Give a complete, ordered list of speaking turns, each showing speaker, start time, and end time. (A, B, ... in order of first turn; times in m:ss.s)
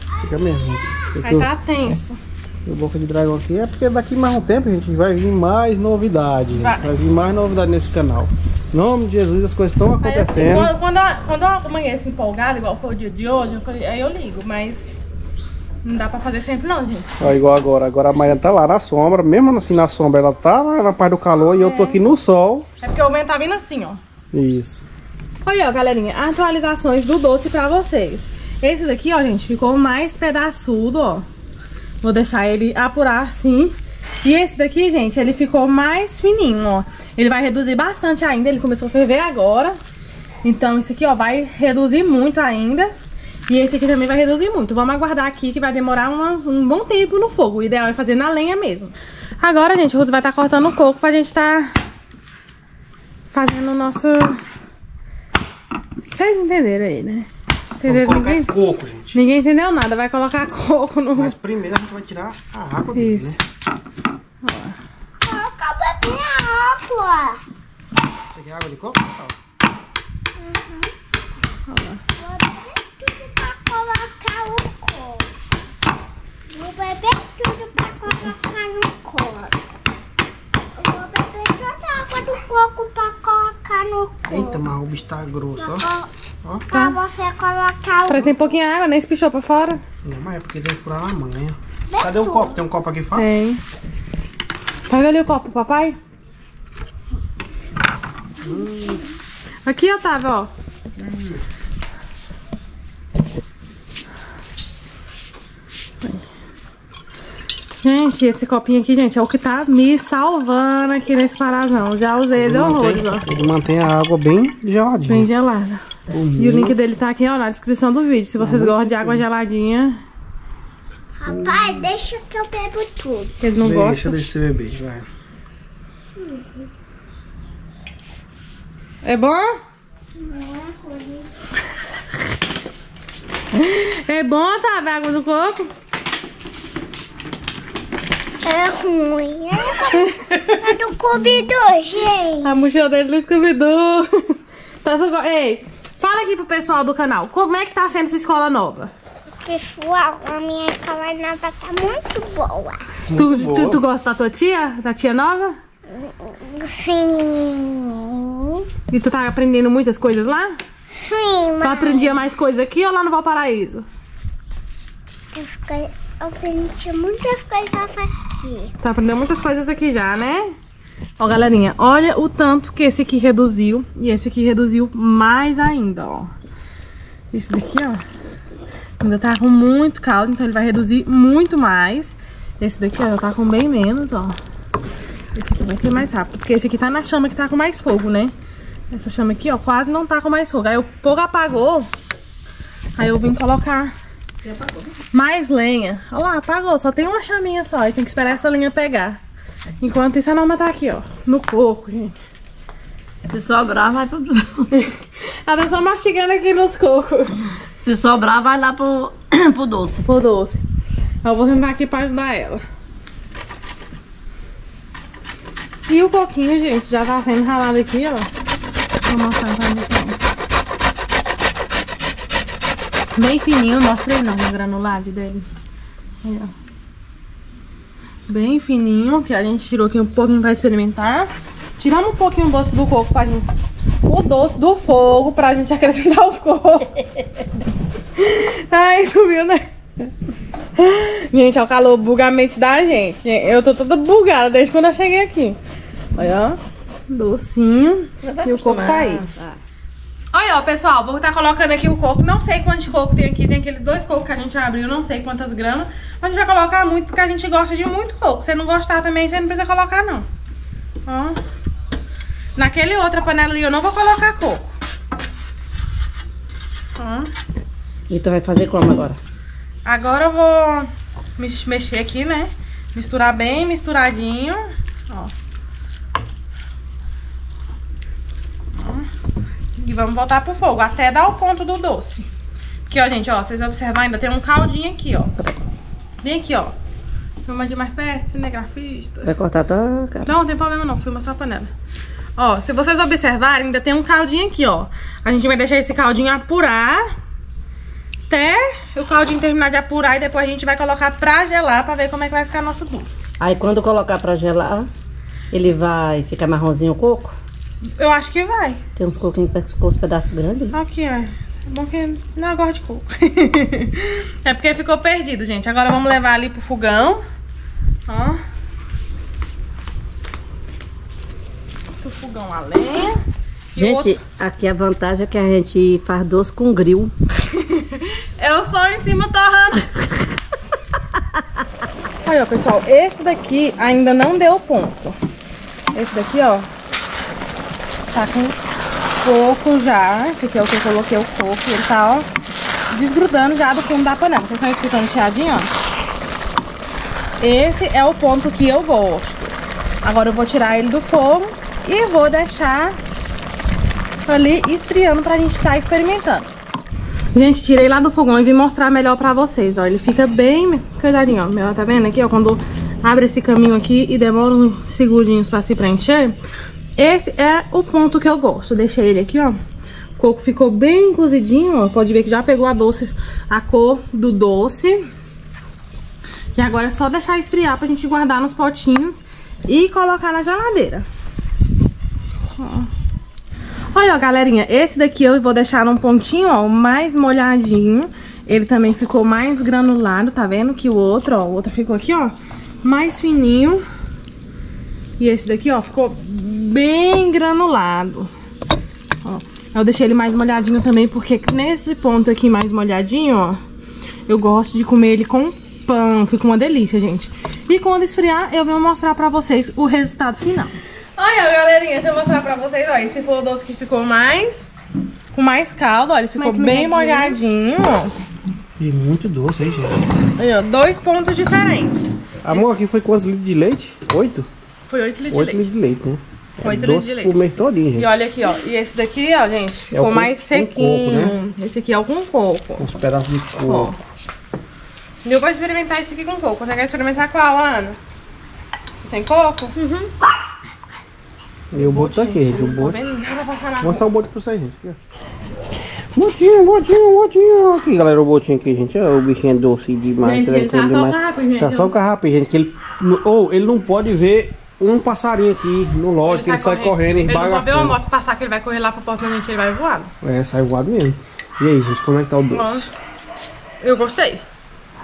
0:00.2-0:01.5 A
0:01.2-0:02.2 B
0:02.6-0:10.7 A
0:06.6-0:06.9 B
0:10.0-0:14.9 B
0:15.8-0:17.1 B
0:17.2-0:22.6 A
0:21.4-0:22.1 B
0:22.8-0:24.0 B
0:24.3-0:24.8 A
0:25.4-0:31.2 B
0:32.0-0:39.8 B
0:40.4-0:42.9 B
0:43.5-0:51.7 B
0:53.3-0:54.4 B
0:56.1-0:57.3 B
0:57.8-0:58.5 B
0:57.8-0:59.2 A
0:59.1-1:01.3 B
1:01.1-1:03.4 A
1:03.0-1:03.4 B
1:04.4-1:04.8 B
1:05.2-1:07.4 C
1:08.3-1:09.4 A
1:10.4-1:10.9 C
1:11.7-1:12.0 B
1:12.2-1:15.3 C
1:16.5-1:19.6 C
1:20.8-1:24.6 C
1:24.3-1:25.9 A
1:25.6-1:26.1 C
1:26.7-1:28.3 C
1:26.7-1:27.0 B
1:28.1-1:29.8 B
1:30.0-1:33.3 A
1:31.9-1:32.6 C
1:33.1-1:33.6 B
1:34.9-1:36.0 B
1:38.4-1:39.0 A
1:39.6-1:40.5 B
1:41.0-1:41.4 A
1:47.8-1:53.2 B
1:52.4-1:55.3 A
1:55.1-1:55.8 B
1:56.1-1:56.8 A
1:56.4-2:00.0 B
1:58.4-1:59.2 A
2:01.2-2:03.4 C
2:01.3-2:01.6 A
2:03.4-2:04.2 B
2:03.6-2:05.0 A
2:06.2-2:06.6 C
2:09.0-2:09.5 B
2:10.2-2:11.3 C
2:13.5-2:15.7 B
2:18.4-2:22.5 C
2:19.9-2:20.5 B
2:22.4-2:28.9 B
2:29.4-2:32.9 C
2:33.1-2:33.8 A
2:33.1-2:35.5 B
2:35.9-2:38.7 C
2:38.9-2:40.6 B
2:41.0-2:42.1 C
2:41.6-2:43.8 B
2:45.3-2:48.7 C
2:48.8-2:50.5 B
2:51.2-2:56.3 B
2:57.3-2:58.0 B
2:59.0-3:04.4 B
3:05.3-3:08.3 B
3:08.9-3:11.9 B
3:13.0-3:13.9 B
3:14.4-3:14.9 D
3:15.1-3:19.2 B
3:19.8-3:22.1 B
3:23.2-3:24.7 D
3:24.7-3:27.4 B
3:27.8-3:30.0 D
3:30.0-3:30.6 B
3:31.2-3:32.6 B
3:35.9-3:38.3 B
3:39.0-3:40.2 B
3:43.2-3:45.5 B
3:46.2-3:46.5 B
3:48.3-3:53.5 B
3:54.0-3:57.2 B
3:58.2-3:59.6 B
4:00.8-4:05.6 B
4:06.1-4:06.6 B
4:07.1-4:09.2 B
4:08.2-4:09.6 D
4:10.3-4:20.2 B
4:21.0-4:21.4 B
4:22.6-4:24.7 B
4:27.0-4:27.3 B
4:28.1-4:29.2 D
4:29.8-4:35.3 B
4:38.8-4:39.1 B
4:39.8-4:42.2 B
4:42.9-4:45.3 B
4:46.2-4:46.7 B
4:47.5-4:49.3 B
4:49.2-4:50.3 D
4:50.2-4:51.7 B
4:52.4-4:57.0 B
4:58.3-5:03.3 B
5:03.4-5:04.9 D
5:05.5-5:07.4 D
5:08.0-5:08.8 B
5:09.0-5:10.8 D
5:10.7-5:17.2 B
5:18.1-5:18.4 B
5:22.0-5:23.2 B
5:23.8-5:24.2 B
5:23.8-5:27.1 D
5:27.5-5:29.9 B
5:32.2-5:35.2 B
5:35.9-5:36.7 B
5:38.1-5:38.6 B
5:39.2-5:42.3 B
5:42.9-5:45.7 B
5:47.4-5:53.0 B
5:54.2-5:56.5 B
5:57.3-6:06.4 B
6:07.0-6:09.6 B
6:10.2-6:15.0 B
6:16.5-6:21.0 B
6:22.6-6:22.9 B
6:23.9-6:33.8 B
6:35.2-6:38.3 B
6:39.2-6:43.6 B
6:44.3-6:54.7 B
6:55.3-6:58.1 B
6:56.4-6:57.3 C
6:58.8-7:00.1 A
7:00.4-7:02.7 B
7:02.4-7:04.5 A
7:04.8-7:05.7 B
7:05.3-7:08.1 A
7:06.6-7:07.4 B
7:08.0-7:12.9 B
7:09.9-7:11.4 A
7:12.8-7:14.0 A
7:13.7-7:14.0 B
7:15.2-7:18.0 B
7:19.0-7:19.8 B
7:19.8-7:20.1 C
7:21.7-7:23.0 A
7:21.8-7:24.0 B
7:23.8-7:25.0 A
7:26.1-7:38.0 A
7:30.2-7:31.9 B
7:36.2-7:40.1 B
7:40.2-7:42.9 A
7:42.5-7:42.9 B
7:43.8-7:44.4 B